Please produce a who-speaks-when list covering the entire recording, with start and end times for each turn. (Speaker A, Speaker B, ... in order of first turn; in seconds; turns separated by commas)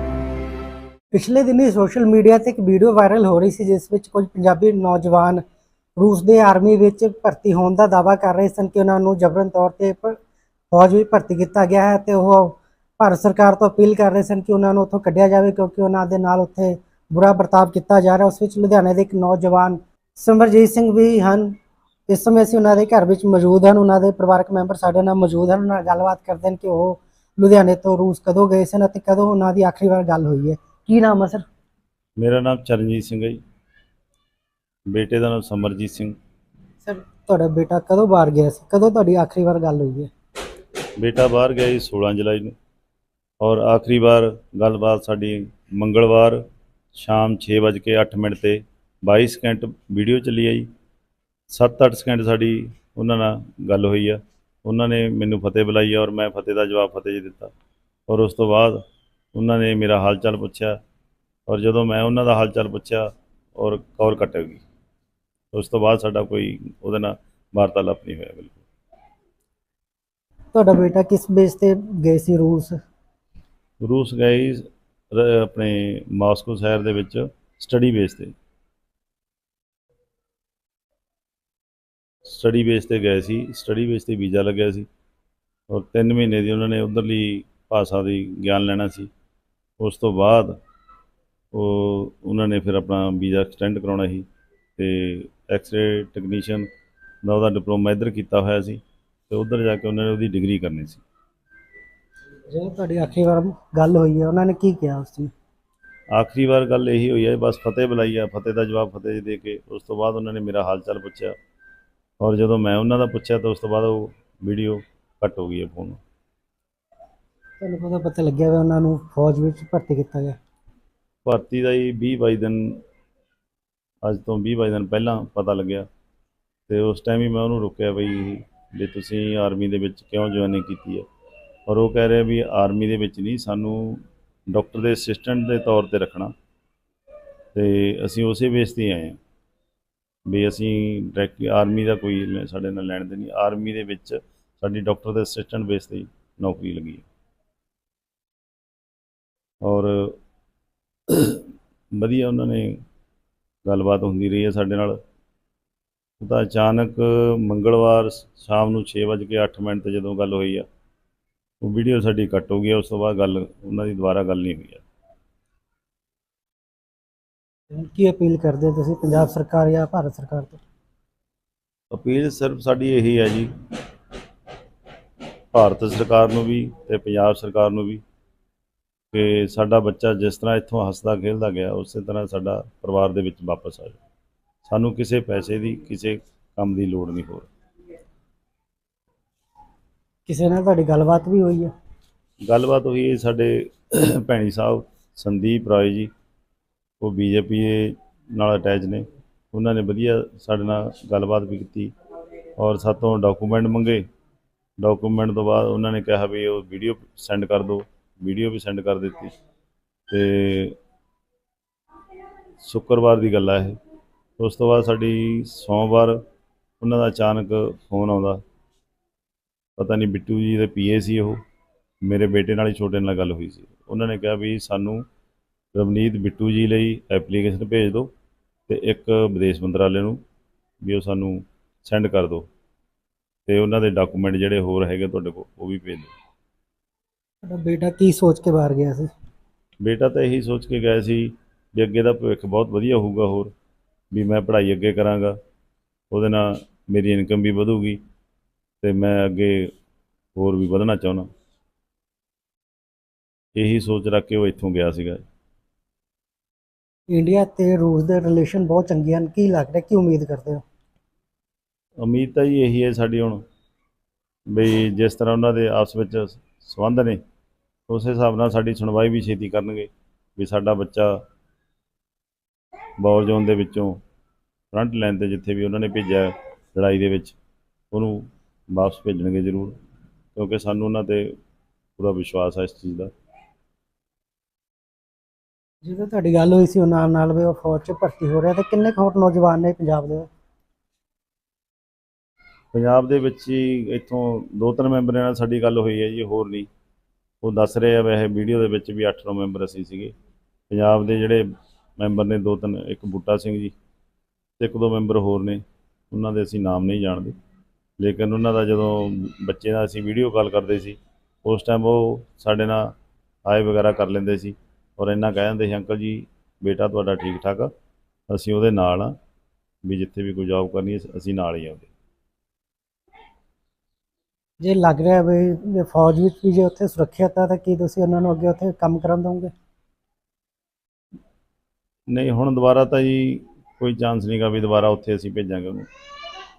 Speaker A: 1.1-5.4, Speaker A: 6.0-10.2, Speaker A: 10.7-21.6, Speaker A: 22.1-31.5, Speaker B: 32.2-33.4, Speaker B: 34.9-36.2, Speaker A: 36.8-40.1, Speaker B: 41.0-42.5, Speaker B: 43.4-46.4, Speaker B: 47.0-50.7, Speaker B: 51.5-57.5, Speaker B: 58.1-58.8, Speaker B: 59.4-60.8, Speaker B: 61.5-64.6, Speaker B: 65.5-68.6, Speaker A: 70.5-72.8, Speaker B: 73.8-78.3, Speaker B: 82.2-84.9, Speaker B: 85.7-89.1, Speaker B: 89.8-90.5, Speaker B: 91.5-94.3, Speaker B: 94.8-96.7, Speaker B: 97.2-101.0, Speaker A: 102.5-105.3, Speaker B: 106.1-111.3, Speaker B: 112.2-116.0, Speaker A: 117.6-120.4, Speaker B: 121.2-122.8, Speaker B: 124.1-125.9, Speaker B: 126.7-131.1, Speaker B: 131.7-136.3, Speaker B: 137.6-139.2, Speaker B: 140.3-147.1, Speaker B: 149.6-150.2, Speaker B: 151.1-151.5, Speaker B: 152.0-152.8, Speaker B: 153.7-155.0, Speaker B: 156.2-160.7, Speaker B: 161.6-164.8, Speaker A: 167.7-170.6, Speaker B: 171.9-173.5, Speaker B: 175.5-178.0, Speaker B: 179.1-184.0, Speaker B: 184.7-187.5, Speaker A: 190.3-191.7, Speaker B: 192.5-196.1, Speaker B: 197.0-201.9, Speaker B: 202.6-204.0, Speaker B: 204.8-209.3, Speaker B: 210.1-210.8, Speaker B: 212.6-213.8, Speaker B: 214.4-216.2, Speaker B: 216.8-218.4, Speaker B: 219.8-221.4, Speaker B: 222.1-225.1, Speaker B: 225.8-228.1, Speaker B: 228.7-230.2, Speaker B: 230.8-232.5, Speaker B: 233.5-236.1, Speaker A: 237.4-239.1, Speaker B: 239.8-243.5, Speaker B: 244.1-245.4, Speaker B: 246.1-248.0, Speaker B: 248.8-249.7, Speaker B: 250.4-251.3, Speaker B: 253.6-255.2, Speaker A: 257.1-260.6, Speaker B: 262.0-263.4, Speaker B: 264.5-267.2, Speaker B: 267.9-271.2, Speaker B: 273.0-274.0, Speaker B: 274.7-277.4, Speaker B: 277.9-279.8, Speaker B: 280.4-281.4, Speaker B: 282.0-283.1, Speaker A: 285.8-290.3, Speaker B: 292.7-296.7, Speaker B: 297.4-300.1, Speaker B: 300.7-301.4, Speaker B: 302.0-303.7, Speaker B: 304.6-307.4, Speaker B: 308.0-312.9, Speaker B: 313.4-317.7, Speaker B: 318.3-319.1, Speaker B: 319.8-321.9, Speaker A: 324.6-329.5, Speaker B: 332.1-335.9